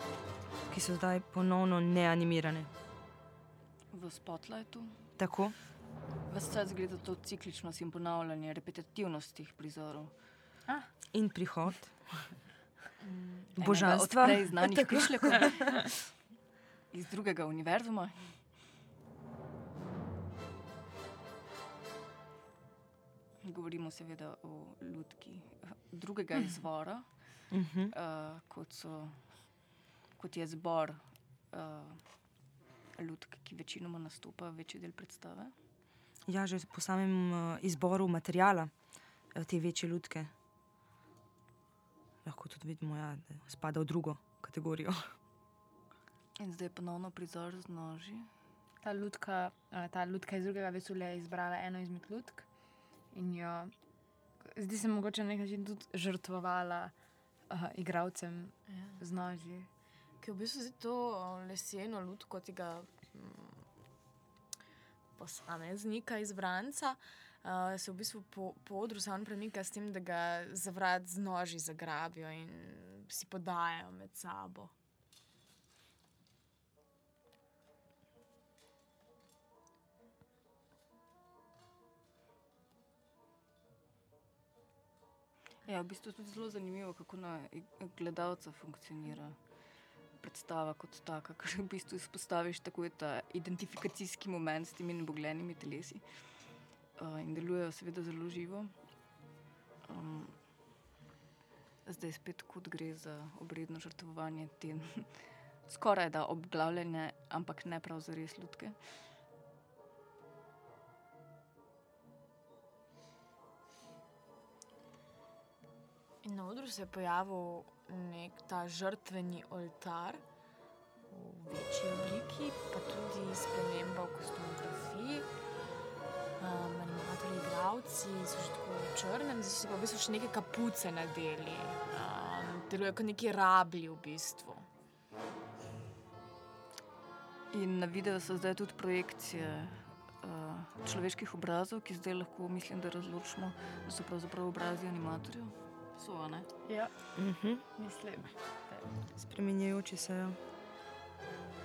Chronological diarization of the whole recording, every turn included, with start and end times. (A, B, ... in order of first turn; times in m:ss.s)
0:00.7-0:02.7 A
0:03.9-0:04.9 B
0:05.2-0:05.6 A
0:06.3-0:10.1 B
0:11.1-0:12.3 A
0:13.0-0:13.5 C
0:13.5-0:16.2 B
0:13.6-0:15.5 A
0:16.9-0:18.5 B
0:23.4-0:29.6 B
0:27.5-0:27.9 A
0:30.2-0:32.3 B
0:32.9-0:35.5 B
0:36.2-0:38.7 A
0:39.3-0:40.3 A
0:42.2-0:45.1 A
0:46.4-0:48.3 B
0:48.8-0:52.5 D
0:53.1-0:53.7 D
0:54.4-0:56.9 D
0:57.5-0:59.7 D
0:58.7-0:59.0 C
1:00.2-1:03.6 C
1:05.2-1:14.7 C
1:25.6-1:38.7 B
1:39.8-1:40.4 B
1:41.8-1:48.8 B
1:56.2-2:00.2 C
2:01.1-2:05.3 C
2:06.4-2:14.7 C
2:17.5-2:26.5 B
2:26.6-2:27.1 D
2:27.2-2:27.6 A
2:27.7-2:28.9 D
2:29.2-2:30.4 A